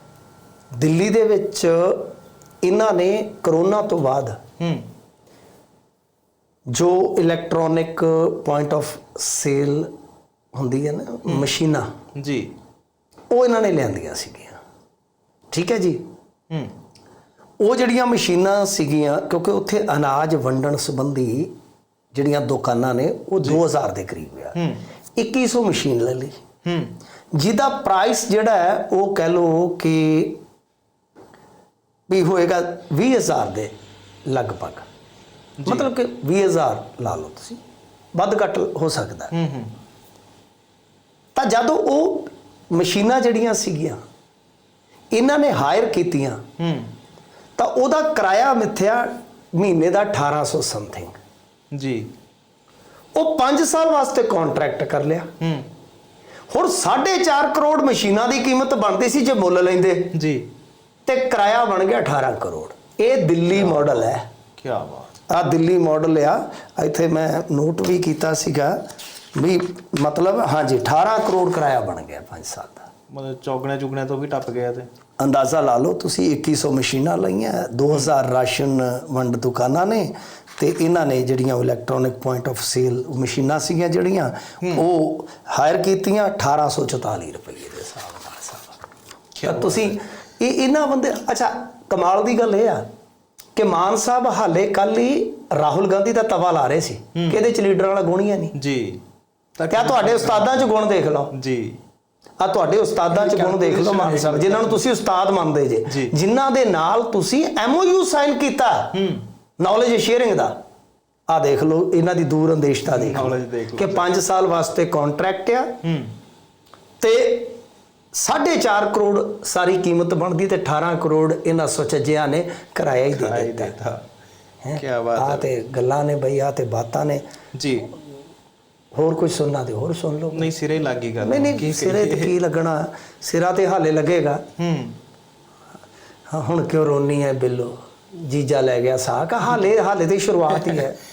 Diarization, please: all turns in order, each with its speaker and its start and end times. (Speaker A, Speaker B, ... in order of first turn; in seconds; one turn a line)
Speaker A: 0.7-2.1
Speaker A: 2.6-4.4
Speaker B: 4.6-4.8
Speaker A: 6.7-9.9
Speaker A: 10.5-11.9
Speaker B: 12.2-12.5
Speaker A: 13.3-14.6
Speaker A: 15.5-16.0
Speaker A: 17.6-21.5
Speaker A: 22.1-24.6
Speaker B: 24.6-24.8
Speaker A: 25.2-26.4
Speaker B: 26.7-26.9
Speaker A: 27.3-30.4
Speaker A: 32.1-33.7
Speaker A: 34.3-34.9
Speaker B: 35.6-35.9
Speaker A: 35.7-37.6
Speaker A: 38.1-39.3
Speaker B: 39.3-39.7
Speaker A: 41.3-44.0
Speaker A: 45.1-46.4
Speaker B: 46.6-46.9
Speaker A: 47.6-51.2
Speaker B: 51.7-52.1
Speaker A: 53.1-55.3
Speaker B: 55.4-55.7
Speaker A: 56.5-60.1
Speaker B: 60.1-60.5
Speaker A: 61.0-64.3
Speaker B: 63.5-64.0
Speaker B: 64.6-65.2
Speaker A: 65.3-72.9
Speaker B: 73.1-74.9
Speaker A: 75.2-88.8
Speaker B: 89.4-90.0
Speaker A: 89.4-92.8
Speaker A: 93.5-98.5
Speaker B: 97.1-97.4
Speaker B: 98.5-99.0
Speaker B: 99.6-100.6
Speaker A: 99.7-101.3
Speaker B: 101.3-101.8
Speaker A: 102.4-109.0
Speaker B: 103.1-104.8
Speaker B: 105.9-106.1
Speaker B: 108.9-109.3
Speaker A: 109.6-110.5
Speaker A: 111.3-115.8
Speaker B: 112.9-114.1
Speaker B: 115.8-116.1
Speaker A: 117.0-117.5
Speaker A: 118.1-123.7
Speaker B: 123.1-124.1
Speaker A: 124.6-127.2
Speaker B: 124.8-125.5
Speaker B: 127.5-127.9
Speaker A: 128.9-130.5
Speaker B: 130.3-132.3
Speaker A: 131.2-134.4
Speaker B: 134.6-135.0
Speaker A: 136.3-141.0